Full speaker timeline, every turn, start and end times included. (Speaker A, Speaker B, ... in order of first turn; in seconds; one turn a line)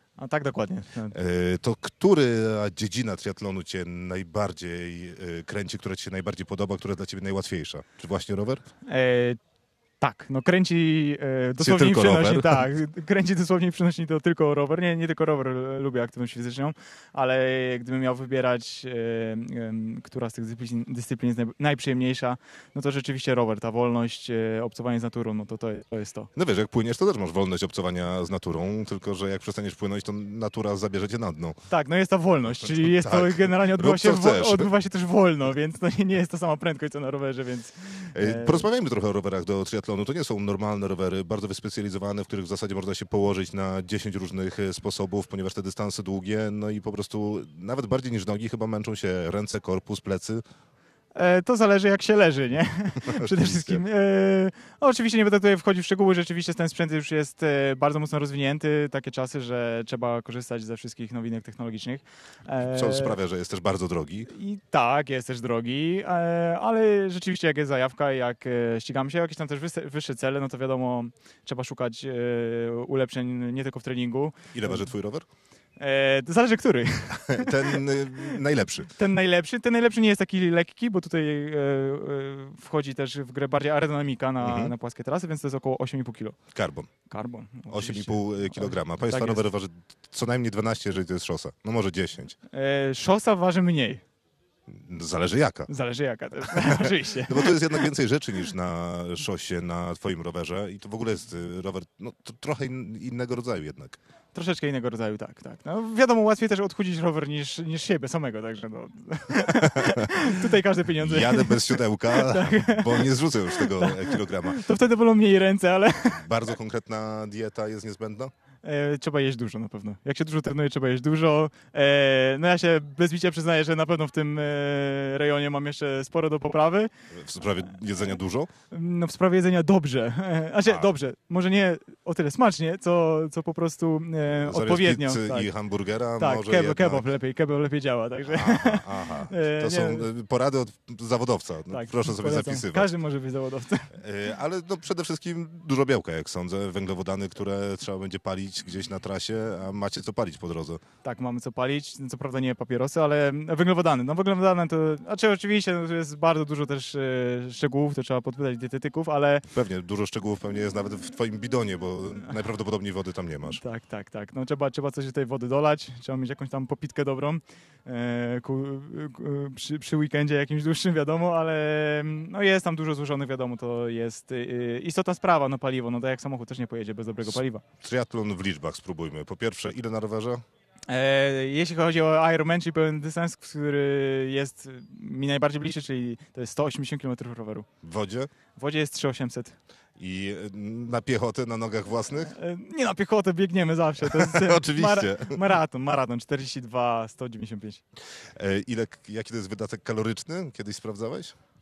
Speaker A: 0.2-1.1
Speaker B: 1.1-8.6
Speaker A: 8.8-9.4
Speaker A: 10.0-26.3
Speaker B: 11.6-12.6
Speaker B: 26.4-31.6
Speaker A: 31.7-38.7
Speaker B: 32.5-34.7
Speaker B: 38.1-50.4
Speaker A: 51.1-63.2
Speaker B: 53.0-53.8
Speaker B: 62.6-64.3
Speaker A: 64.3-74.8
Speaker B: 74.5-75.3
Speaker A: 75.8-78.4
Speaker B: 77.1-78.9
Speaker A: 78.9-86.4
Speaker B: 84.4-84.7
Speaker B: 86.5-86.9
Speaker A: 87.1-89.4
Speaker B: 87.7-92.3
Speaker A: 92.5-94.0
Speaker B: 94.7-95.7
Speaker A: 95.7-97.9
Speaker B: 96.5-104.0
Speaker A: 104.3-116.2
Speaker B: 109.4-110.4
Speaker B: 111.0-114.6
Speaker B: 116.1-118.3
Speaker A: 118.6-126.9
Speaker B: 127.1-128.5
Speaker A: 128.7-135.5
Speaker B: 134.3-137.1
Speaker A: 136.2-140.1
Speaker B: 138.2-142.9
Speaker A: 141.7-143.9
Speaker B: 143.9-150.8
Speaker A: 151.0-159.5
Speaker B: 159.5-163.6
Speaker A: 163.5-177.6
Speaker B: 177.2-180.4
Speaker A: 180.9-187.7
Speaker B: 187.8-188.3
Speaker A: 188.6-189.5
Speaker B: 190.0-192.3
Speaker A: 192.1-197.8
Speaker B: 194.0-195.4
Speaker B: 198.3-201.3